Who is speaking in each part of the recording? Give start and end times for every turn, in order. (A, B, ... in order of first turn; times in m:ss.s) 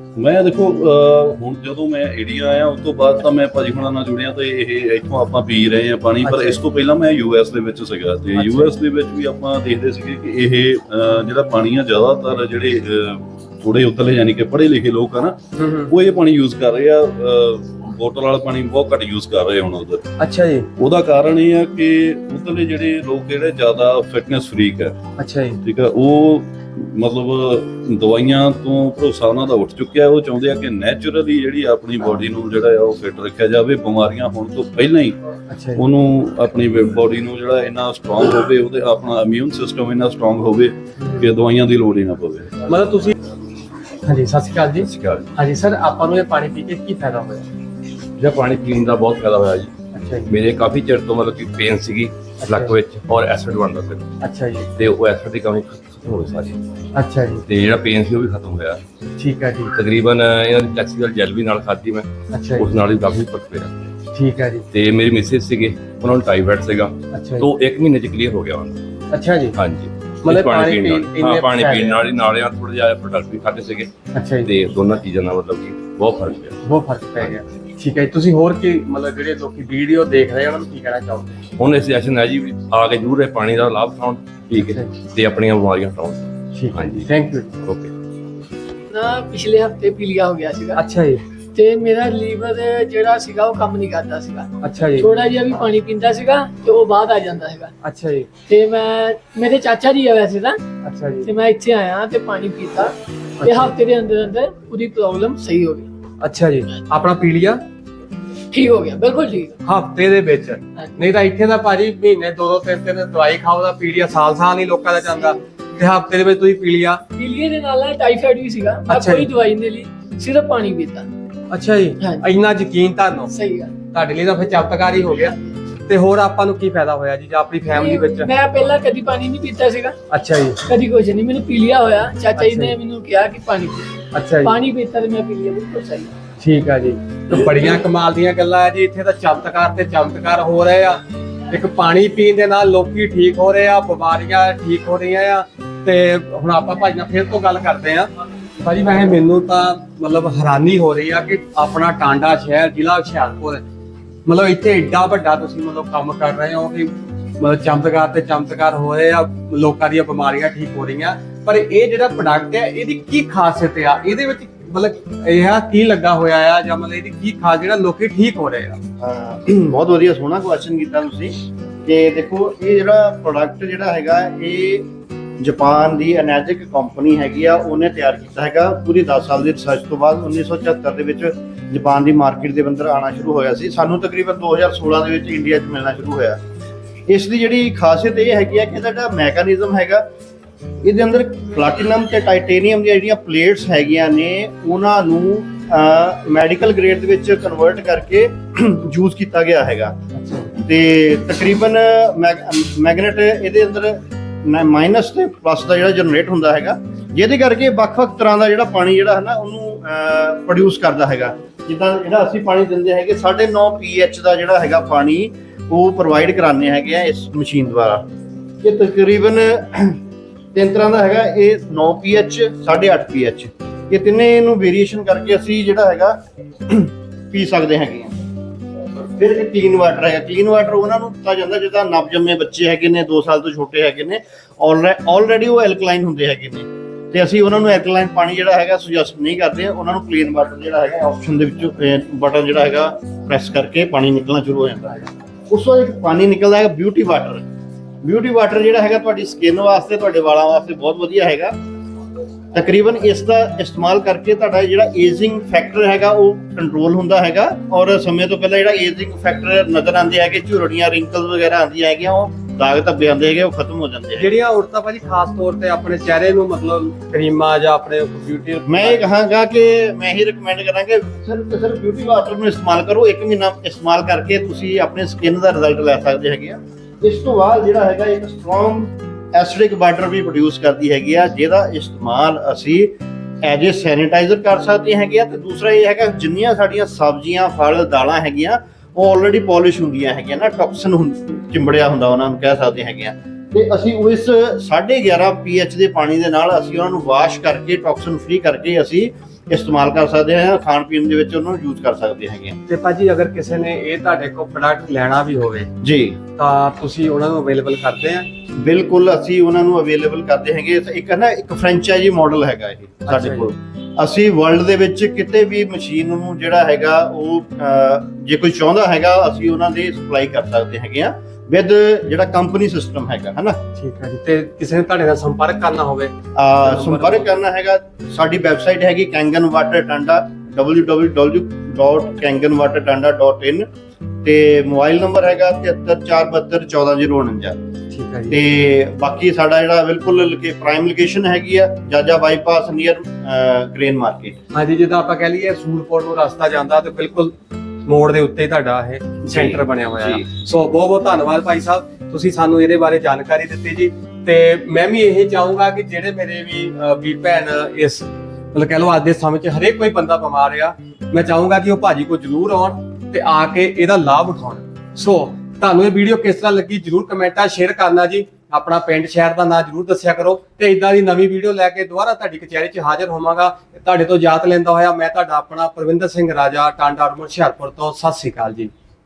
0:00.2-0:15.4 A
0:06.2-0:06.6 B
0:08.4-0:08.7 B
0:15.6-0:15.9 B
0:15.9-0:20.0 A
0:20.2-0:20.7 B
0:20.8-0:24.9 A
0:25.2-0:25.6 B
0:25.7-0:35.1 A
0:35.5-0:35.9 B
0:35.8-0:42.5 A
0:41.0-0:41.3 B
0:42.7-0:43.1 B
0:44.0-0:47.4 B
0:44.8-0:45.3 C
0:48.2-0:49.7 C
0:49.9-0:50.3 B
0:50.3-0:54.1 C
0:52.4-0:52.7 B
0:54.2-0:54.7 B
0:54.8-0:56.6 C
0:56.9-0:57.4 B
0:57.5-0:58.8 C
0:59.2-0:59.7 B
0:59.7-1:03.7 C
1:02.3-1:02.7 B
1:04.1-1:04.6 B
1:04.7-1:08.8 C
1:07.1-1:07.5 B
1:09.1-1:09.6 B
1:09.6-1:13.9 C
1:10.2-1:12.0 B
1:14.1-1:14.5 B
1:14.4-1:16.6 C
1:16.6-1:21.4 B
1:21.6-1:26.2 C
1:24.6-1:25.0 B
1:26.6-1:27.5 B
1:26.7-1:27.1 C
1:27.6-1:27.9 C
1:28.9-1:30.8 D
1:30.8-1:31.2 B
1:31.6-1:34.5 D
1:34.6-1:35.1 B
1:35.0-1:37.7 D
1:37.8-1:38.3 B
1:38.5-1:40.6 D
1:40.8-1:41.3 B
1:41.2-1:42.9 D
1:43.4-1:43.8 B
1:43.4-1:45.8 D
1:46.2-1:47.6 B
1:48.5-1:49.5 D
1:49.6-1:57.0 B
1:57.2-2:01.0 D
1:58.8-1:59.3 B
2:01.5-2:05.4 B
2:03.3-2:03.7 D
2:05.9-2:08.3 B
2:07.8-2:09.9 D
2:10.1-2:10.6 B
2:10.7-2:13.8 D
2:12.4-2:12.8 B
2:14.1-2:14.6 B
2:14.5-2:16.1 D
2:16.4-2:21.0 B
2:21.5-2:28.1 B
2:28.6-2:33.6 B
2:34.2-2:48.8 B
2:49.0-2:54.9 E
2:55.4-3:06.4 E
3:07.1-3:10.1 E
3:10.8-3:20.0 E
3:20.1-3:20.5 B
3:20.6-3:38.0 E
3:38.6-3:40.0 E
3:40.5-3:46.2 E
3:46.7-3:48.2 E
3:49.1-4:07.4 E
4:08.0-4:11.5 E
4:12.5-4:24.3 E
4:24.2-4:29.0 B
4:28.7-5:02.6 E
5:02.7-5:05.7 B
5:05.8-5:06.2 E
5:06.4-5:08.3 B
5:08.6-5:23.6 E
5:13.1-5:13.5 B
5:23.8-5:27.4 B
5:26.3-5:33.6 E
5:34.2-5:37.6 E
5:37.9-5:38.4 B
5:38.3-5:44.3 E
5:44.5-5:47.3 B
5:47.8-6:18.7 B
5:49.3-5:50.2 E